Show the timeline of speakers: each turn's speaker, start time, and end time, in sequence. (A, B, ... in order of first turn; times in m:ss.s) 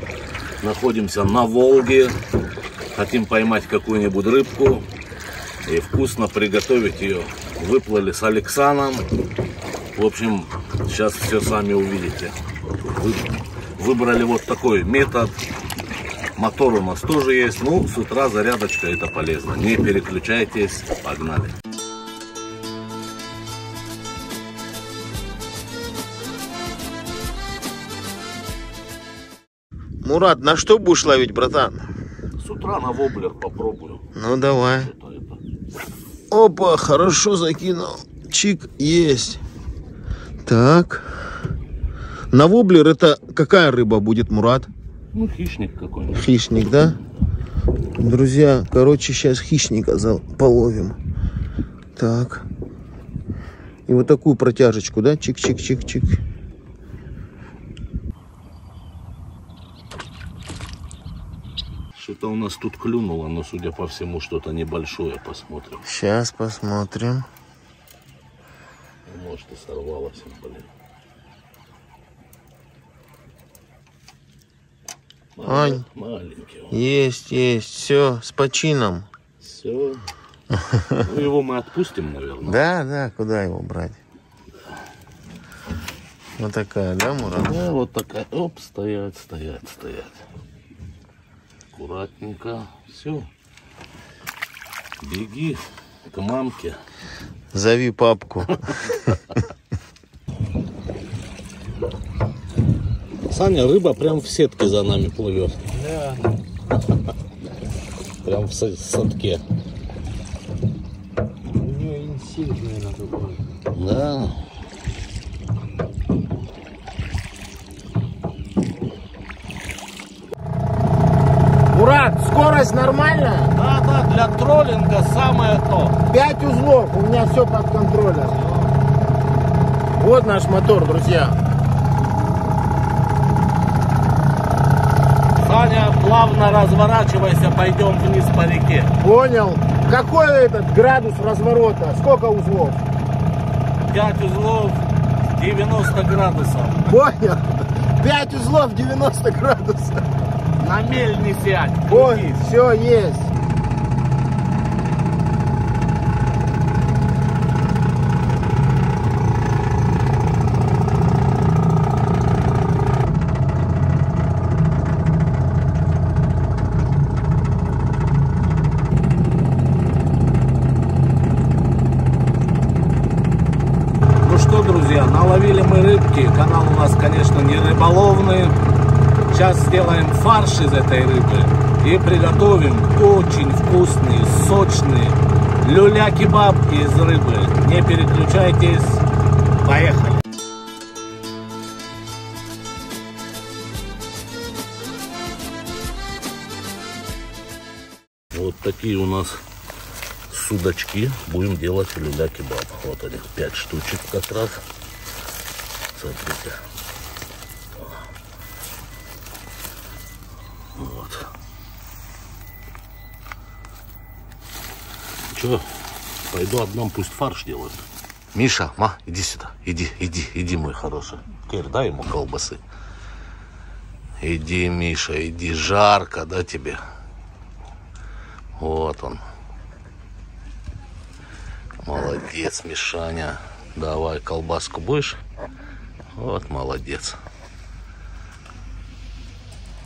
0:00.6-0:02.2 A
0:02.9-0:04.8 A
0:05.6-0:09.0 A
0:09.9-0:12.3 A
0:12.8-0:15.4 A
0:16.4-0:21.6 A
0:30.0-0:31.9 B
0:32.4-0:34.1 A
0:34.1-0:34.9 B
0:34.7-0:35.4 A
0:36.3-0:39.4 B
0:40.4-0:41.2 B
0:42.3-0:44.7 B
0:45.1-0:46.4 A
0:46.1-0:47.0 B
0:48.0-0:51.0 B
0:52.0-0:52.4 B
0:53.9-0:56.2 B
1:01.9-1:05.8 A
1:05.8-1:07.3 B
1:09.0-1:10.7 A
1:15.4-1:16.8 A
1:15.4-1:15.8 B
1:16.7-1:19.1 B
1:19.4-1:20.0 A
1:20.5-1:21.0 B
1:21.0-1:22.6 A
1:22.4-1:24.0 B
1:26.4-1:27.6 B
1:27.4-1:30.2 A
1:31.7-1:33.3 A
1:35.0-1:36.8 A
1:37.5-1:39.2 B
1:43.3-1:45.6 A
1:45.7-1:46.2 C
1:48.2-1:49.4 A
1:51.6-1:53.4 C
1:53.7-1:54.4 A
2:01.7-2:03.5 B
2:03.5-2:06.0 A
2:06.1-2:08.4 B
2:10.0-2:11.3 B
2:15.4-2:18.9 A
2:19.0-2:22.8 B
2:23.9-2:24.8 A
2:25.3-2:26.9 A
2:26.9-2:27.4 B
2:28.0-2:30.0 B
2:30.6-2:32.3 A
2:31.9-2:33.3 B
2:54.2-2:58.6 A
2:59.3-3:09.0 A
3:09.6-3:10.2 A
3:18.3-3:19.4 A
3:20.3-3:24.6 A
3:25.9-3:26.6 A
3:30.8-3:31.3 A
3:35.3-3:35.6 A
3:36.3-3:42.6 A
3:44.2-3:46.8 A
3:48.6-3:49.2 A
3:51.8-3:55.2 A
3:56.2-3:57.2 A